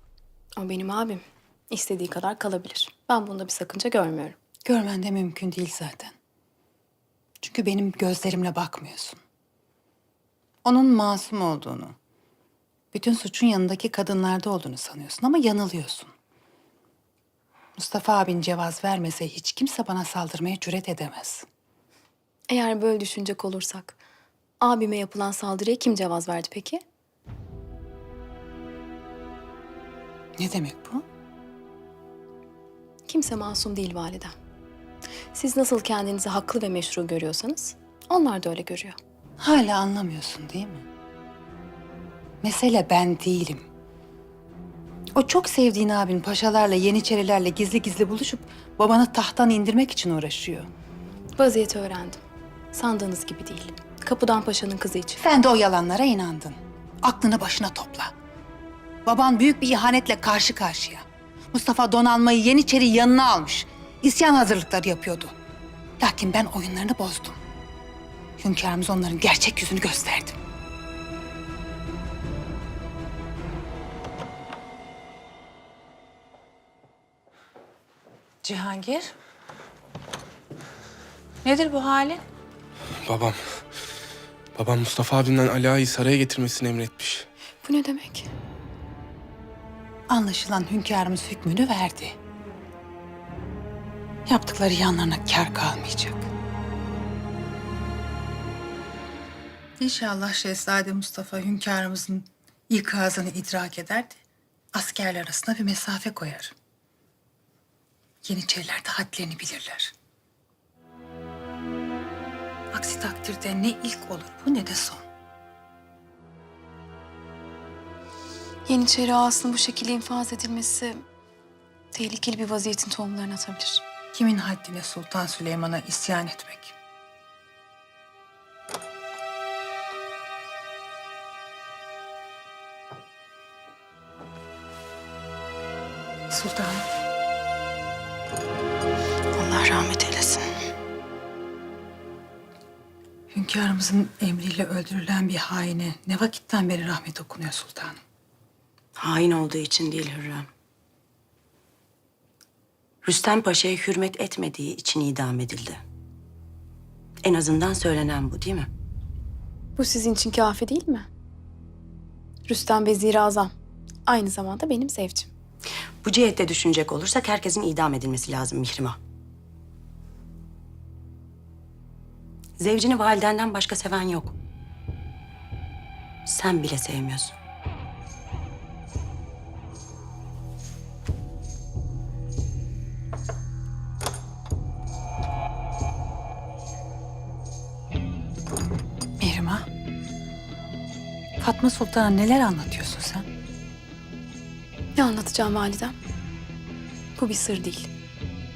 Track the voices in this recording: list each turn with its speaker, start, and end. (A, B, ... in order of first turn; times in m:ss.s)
0:00.6-0:04.4 A
0:04.6-0:06.2 B
0:07.4-0:09.2 B
0:10.6-0:12.0 B
0:12.9-0:16.1 B
0:17.8-0:21.4 B
0:22.5-0:24.0 A
0:24.6-0:26.8 A
0:30.4-0:31.0 B
0:33.1-0:34.3 A
0:35.3-0:39.0 A
0:39.4-0:40.8 B
0:42.4-0:43.6 B
0:45.2-0:50.7 B
0:51.4-0:52.2 A
0:52.7-0:55.2 A
0:55.2-0:58.1 B
0:59.1-1:05.3 B
1:06.0-1:07.4 B
1:08.4-1:10.4 B
1:18.4-1:19.1 B
1:21.4-1:22.2 B
1:23.1-1:23.4 C
1:24.6-1:27.3 C
1:27.6-1:28.3 A
1:30.1-1:32.2 B
1:34.3-1:36.3 B
1:39.8-1:44.2 B
1:44.7-1:46.5 B
1:48.2-1:49.9 B
1:52.7-1:55.1 B
1:58.7-2:01.0 A
2:01.9-2:03.8 A
2:04.1-2:06.8 B
2:16.3-2:16.8 B
2:19.4-2:20.5 D
2:23.3-2:28.0 B
2:29.0-2:30.5 D
2:33.0-2:35.8 D
2:37.2-2:38.7 D
2:39.8-2:41.1 A
2:42.5-2:43.5 A
2:44.1-2:45.3 A
2:46.0-2:49.0 D
2:52.6-2:54.4 D
2:56.3-2:57.4 D
3:09.2-3:09.7 B
3:11.4-3:13.3 B
3:15.0-3:15.9 A
3:17.2-3:17.9 A